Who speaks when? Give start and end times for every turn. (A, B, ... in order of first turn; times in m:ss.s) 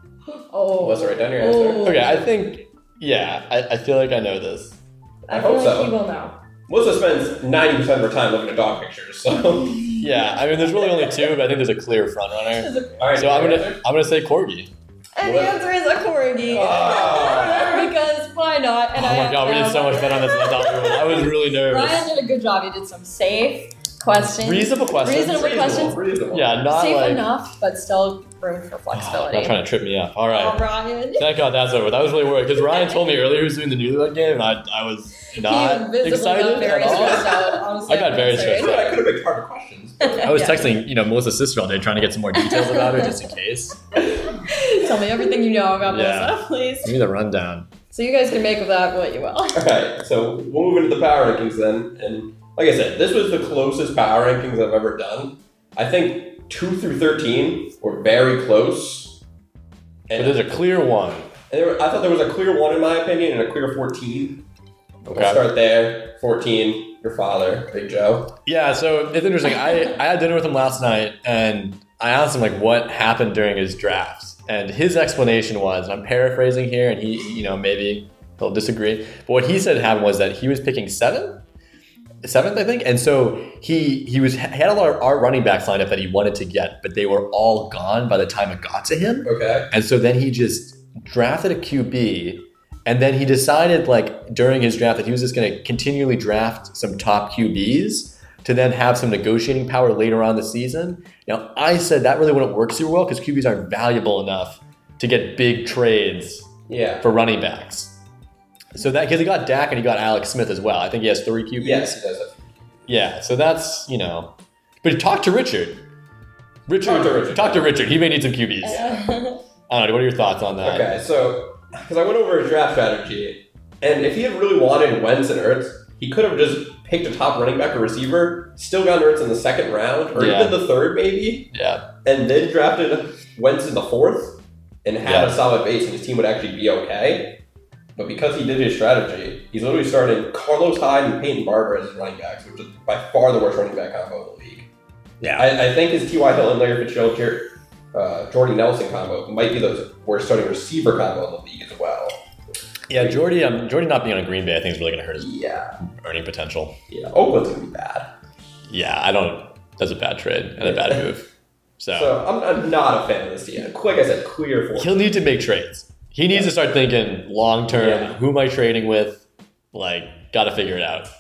0:00.3-0:02.3 A
0:00.8-0:02.0 B
0:01.8-0:04.8 C
0:05.3-0:06.4 A
0:05.3-0:05.9 B
0:06.7-0:09.9 B
0:09.8-0:11.2 A
0:10.0-0:14.7 C
0:12.5-0:13.1 A
0:13.0-0:13.8 B
0:15.2-0:26.0 A
0:15.2-0:15.6 B
0:16.5-0:17.9 B
0:16.5-0:17.7 C
0:19.0-0:22.0 C
0:24.2-0:25.6 C
0:25.1-0:26.7 B
0:26.3-0:27.2 C
0:26.7-0:29.6 A
0:28.9-0:30.6 C
0:30.3-0:31.3 A
0:31.2-0:39.0 C
0:32.5-0:33.0 A
0:35.3-0:38.9 A
0:36.8-0:37.5 B
0:38.4-0:40.4 B
0:40.0-0:40.8 A
0:40.2-0:43.8 C
0:42.3-0:43.3 A
0:44.0-0:47.0 A
0:45.8-0:47.7 C
0:47.9-0:49.7 A
0:49.5-0:59.2 B
1:00.1-1:00.5 B
1:00.1-1:01.3 C
1:01.5-1:04.4 B
1:05.0-1:05.4 C
1:05.1-1:08.3 B
1:08.5-1:21.4 C
1:22.2-1:46.5 C
1:29.2-1:29.7 B
1:46.7-1:47.0 B
1:47.0-1:47.9 C
1:48.7-1:52.0 C
1:51.6-1:52.5 B
1:52.9-1:54.3 C
1:54.8-1:55.8 C
1:56.7-1:58.9 C
1:56.8-1:57.7 B
1:58.6-1:59.4 A
1:58.6-1:59.1 B
1:59.7-2:00.9 C
2:00.6-2:11.5 B
2:10.2-2:10.6 C
2:11.5-2:11.9 C
2:12.0-2:17.4 B
2:15.0-2:15.4 C
2:18.0-2:24.7 B
2:25.2-2:25.5 C
2:25.4-2:32.2 B
2:32.9-2:36.7 C
2:35.2-2:35.8 B
2:36.9-2:38.1 B
2:38.7-2:41.2 C
2:40.6-2:41.1 B
2:41.8-2:42.2 C
2:41.9-2:45.0 B
2:44.8-2:51.1 C
2:47.7-2:48.2 B